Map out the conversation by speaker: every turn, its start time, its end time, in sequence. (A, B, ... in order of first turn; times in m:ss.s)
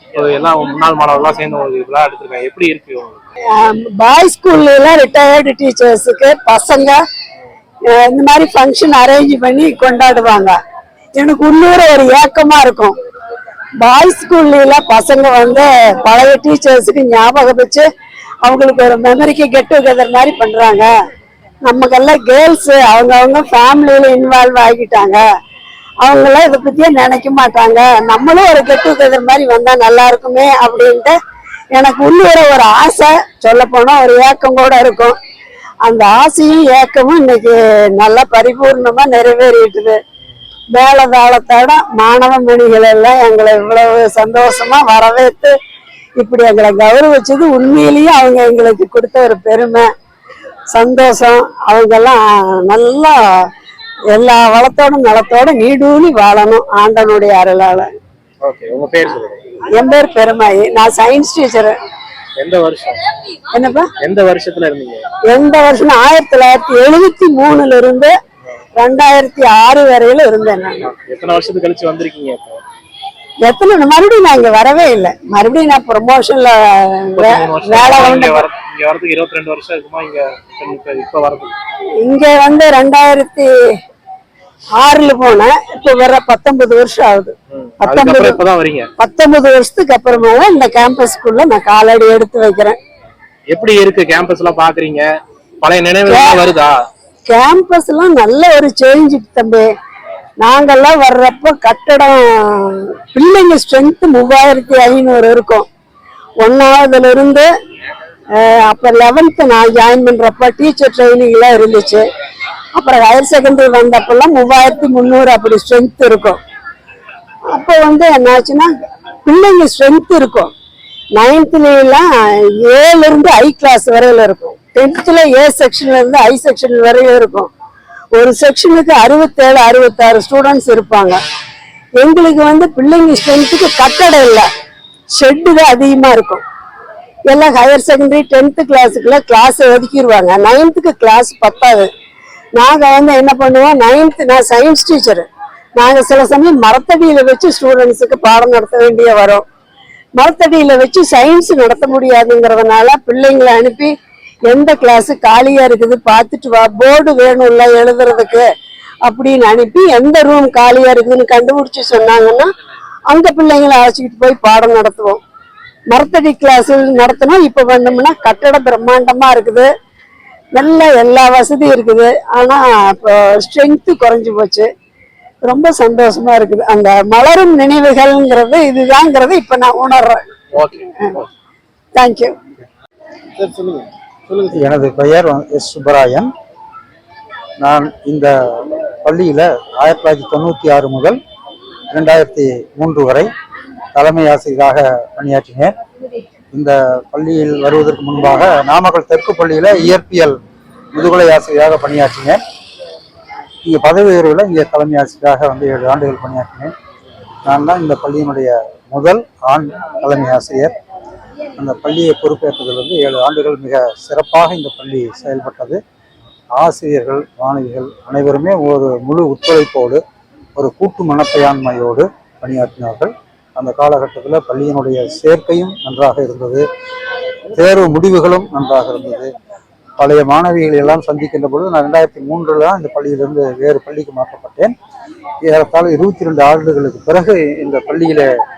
0:00.1-0:03.3 A
0:03.5-0:07.0 B
0:07.9-0:10.6 B
0:11.2-0:12.9 B
0:13.8-0:17.9 B
0:18.4-0:20.9 B
0:21.6-0:25.2 B
0:26.0-0:31.2 B
0:31.7-0:35.2 B
0:35.8-0:40.0 B
0:40.7-0:45.6 B
0:46.2-0:49.9 B
0:50.7-0:53.4 B
0:54.1-0:57.9 B
0:58.4-0:59.4 A
0:59.7-1:01.8 B
1:02.4-1:03.0 A
1:03.5-1:03.9 B
1:04.0-1:05.0 A
1:05.3-1:08.1 B
1:08.8-1:10.9 B
1:10.8-1:12.6 A
1:13.4-1:18.4 B
1:17.1-1:21.5 A
1:22.0-1:23.5 B
1:24.8-1:28.4 B
1:27.5-1:28.9 A
1:29.0-1:32.8 B
1:33.5-1:35.1 A
1:35.6-1:36.8 A
1:36.1-1:36.4 B
1:37.3-1:39.7 B
1:40.4-1:45.7 B
1:46.4-1:47.5 B
1:48.4-1:52.0 B
1:52.7-1:56.4 B
1:57.5-1:58.7 B
1:59.3-2:00.5 B
2:01.2-2:07.5 B
2:08.1-2:11.2 B
2:12.0-2:14.5 B
2:15.1-2:16.4 B
2:17.3-2:21.9 B
2:22.6-2:29.4 B
2:30.2-2:33.9 B
2:34.5-2:38.5 B
2:39.0-2:42.5 B
2:43.1-2:45.2 B
2:45.9-2:49.7 B
2:50.5-2:54.7 B
2:55.4-3:00.2 B
3:00.5-3:01.3 A
3:02.0-3:02.4 B
3:03.4-3:04.6 A
3:04.5-3:06.3 C
3:07.6-3:11.2 C
3:11.9-3:13.3 C
3:14.0-3:15.7 C
3:16.5-3:20.4 C
3:20.9-3:22.4 C
3:23.6-3:26.7 C
3:27.5-3:30.7 C
3:31.6-3:35.8 C
3:36.6-3:40.0 C
3:40.6-3:46.7 C
3:47.5-3:49.3 C
3:50.0-3:54.8 C
3:55.4-3:58.3 C